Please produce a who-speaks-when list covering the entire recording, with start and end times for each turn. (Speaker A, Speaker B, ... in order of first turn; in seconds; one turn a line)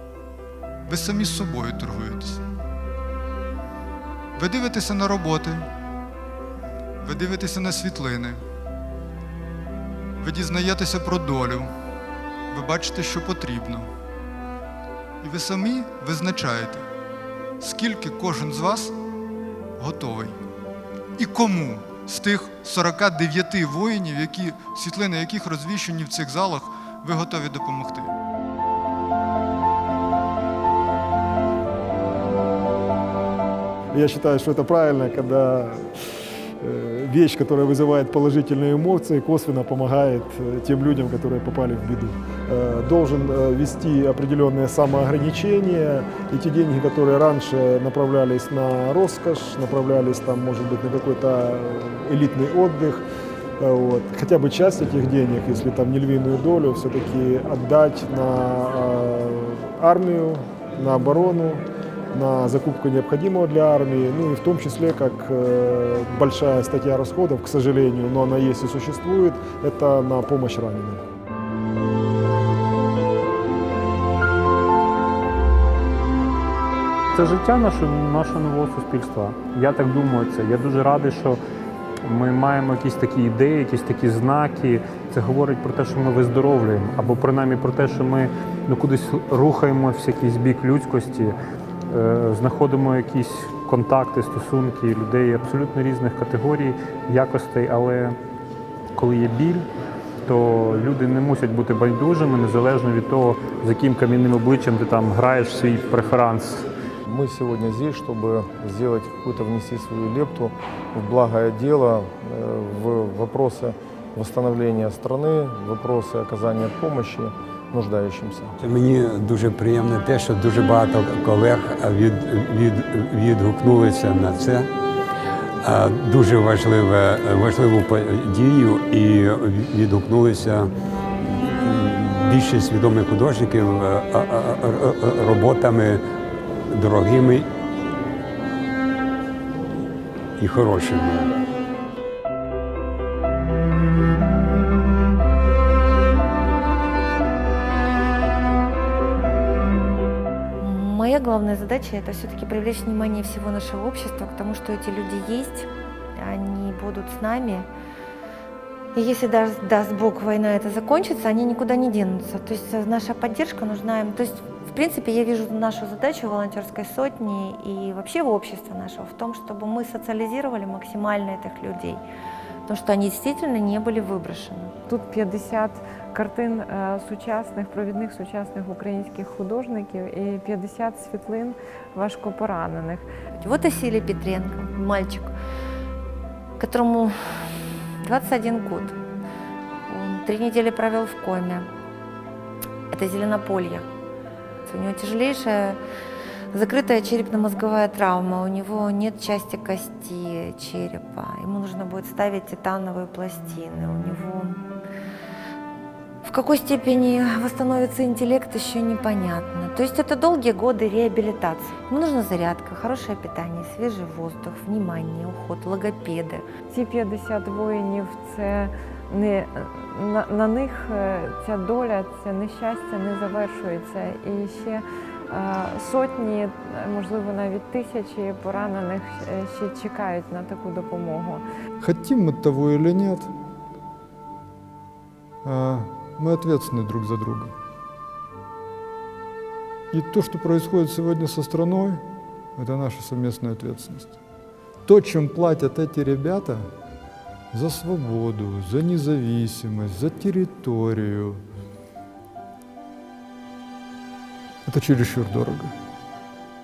Speaker A: 0.9-2.4
Speaker A: 4.3-5.7
Speaker A: 7.0-8.4
Speaker A: 10.2-11.7
Speaker A: 12.5-13.9
Speaker A: 15.2-16.9
Speaker A: 17.6-18.9
Speaker A: 19.8-20.4
Speaker A: 21.2-28.1
Speaker B: 33.9-36.0
Speaker B: 36.6-53.0
Speaker B: 53.6-71.0
Speaker C: 77.1-81.4
Speaker C: 82.0-91.3
Speaker C: 91.9-98.2
Speaker C: 99.0-99.7
Speaker C: 100.2-106.6
Speaker D: 107.0-118.5
Speaker E: 118.6-124.7
Speaker E: 125.6-130.7
Speaker E: 131.6-136.0
Speaker E: 136.7-137.5
Speaker E: 140.4-141.3
Speaker F: 150.6-157.7
Speaker F: 158.9-172.0
Speaker F: 172.7-174.7
Speaker G: 174.9-183.1
Speaker F: 183.4-185.3
Speaker F: 186.6-187.1
Speaker F: 188.0-189.0
Speaker F: 189.9-191.7
Speaker F: 192.9-193.9
Speaker F: 194.7-195.8
Speaker F: 196.5-204.6
Speaker F: 206.2-216.4
Speaker G: 216.7-231.4
Speaker A: 231.8-233.3
Speaker A: 235.4-237.5
Speaker A: 239.9-242.0
Speaker A: 242.6-244.2
Speaker A: 244.8-246.6
Speaker A: 247.5-251.4
Speaker A: 254.7-255.7